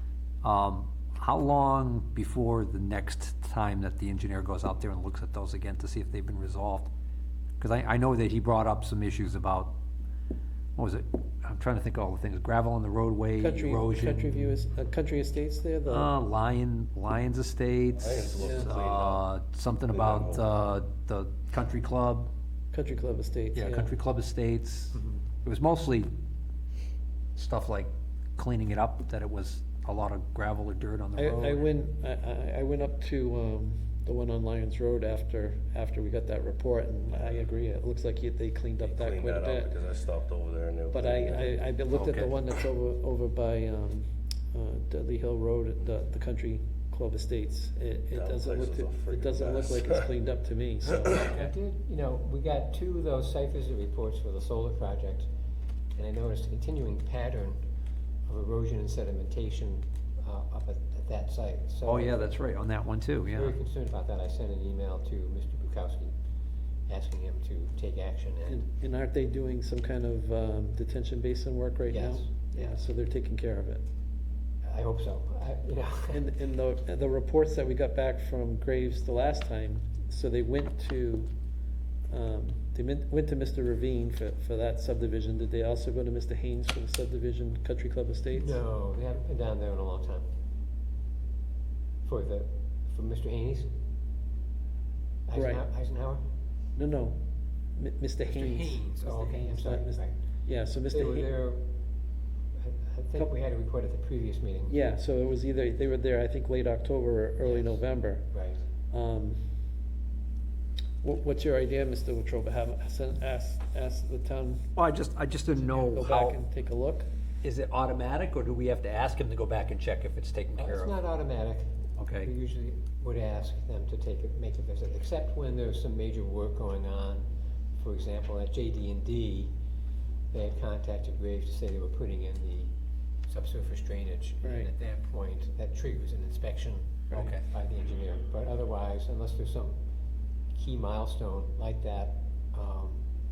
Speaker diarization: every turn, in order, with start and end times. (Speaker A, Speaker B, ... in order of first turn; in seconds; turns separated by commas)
Speaker A: 0.4-6.9, Speaker A: 7.6-9.8, Speaker A: 10.8-14.6, Speaker B: 13.4-16.1, Speaker A: 15.9-22.3, Speaker C: 17.9-19.2, Speaker B: 18.4-18.7, Speaker C: 19.9-20.5, Speaker B: 22.7-23.9, Speaker A: 23.6-26.1, Speaker A: 27.4-31.6, Speaker B: 31.2-39.8, Speaker C: 38.8-41.5, Speaker B: 40.9-51.3, Speaker A: 41.9-42.3, Speaker C: 48.1-50.1, Speaker D: 51.1-55.3, Speaker A: 51.1-51.5, Speaker D: 56.0-57.6, Speaker D: 58.3-62.3, Speaker A: 61.8-63.5, Speaker D: 63.3-66.1, Speaker D: 66.9-68.6, Speaker B: 68.5-73.9, Speaker D: 71.9-72.8, Speaker D: 74.6-76.2, Speaker B: 76.1-81.3, Speaker B: 82.1-88.6, Speaker D: 88.3-90.3, Speaker D: 92.0-93.7, Speaker D: 95.3-96.2, Speaker B: 95.3-95.6, Speaker B: 96.8-97.2, Speaker B: 97.8-101.3, Speaker D: 98.3-100.2, Speaker D: 100.9-101.6, Speaker D: 102.6-104.8, Speaker B: 104.7-108.3, Speaker D: 107.5-107.8, Speaker D: 108.3-108.7, Speaker B: 108.9-109.4, Speaker B: 111.0-114.7, Speaker A: 114.8-116.4, Speaker B: 115.5-117.1, Speaker A: 117.4-121.0, Speaker D: 120.6-129.5, Speaker A: 122.0-122.3, Speaker D: 130.3-132.7, Speaker D: 133.3-139.8, Speaker B: 134.4-134.7, Speaker A: 137.1-137.4, Speaker D: 140.6-143.0